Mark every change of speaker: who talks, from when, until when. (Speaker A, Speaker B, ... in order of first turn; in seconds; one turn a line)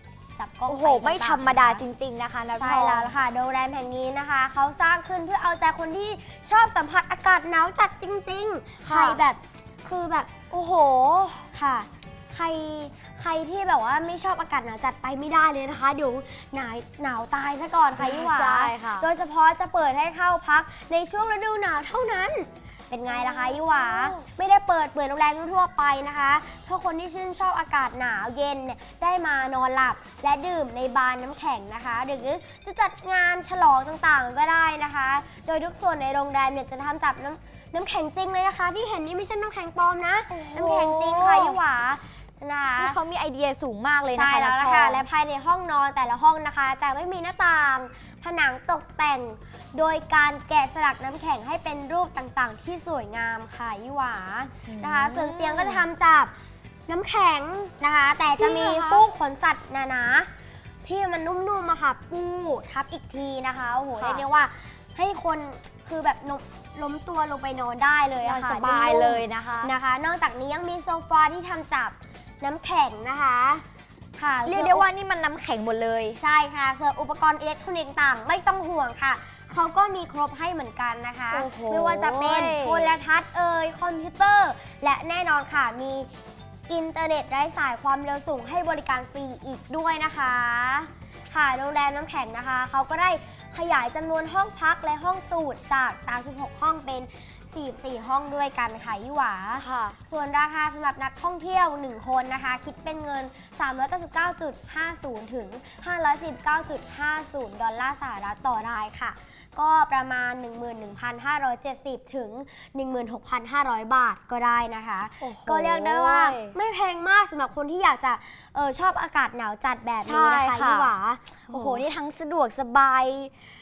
Speaker A: 0.4-1.8
Speaker B: 0.7-3.1
Speaker A: 2.5-10.4
Speaker B: 8.8-9.2
Speaker B: 10.5-11.5
Speaker A: 11.5-43.0
Speaker B: 18.0-19.1
Speaker B: 23.1-24.2
Speaker B: 40.3-41.6
Speaker B: 42.8-45.1
Speaker A: 44.1-56.3
Speaker B: 54.7-55.9
Speaker A: 56.9-60.3
Speaker B: 58.4-59.1
Speaker A: 60.8-73.7
Speaker B: 63.9-64.2
Speaker B: 68.2-69.7
Speaker A: 74.2-74.9
Speaker B: 74.4-76.2
Speaker A: 76.1-86.1
Speaker B: 81.3-82.9
Speaker A: 86.7-121.8
Speaker B: 99.6-100.0
Speaker B: 115.2-116.6
Speaker B: 120.0-120.9
Speaker B: 121.5-123.3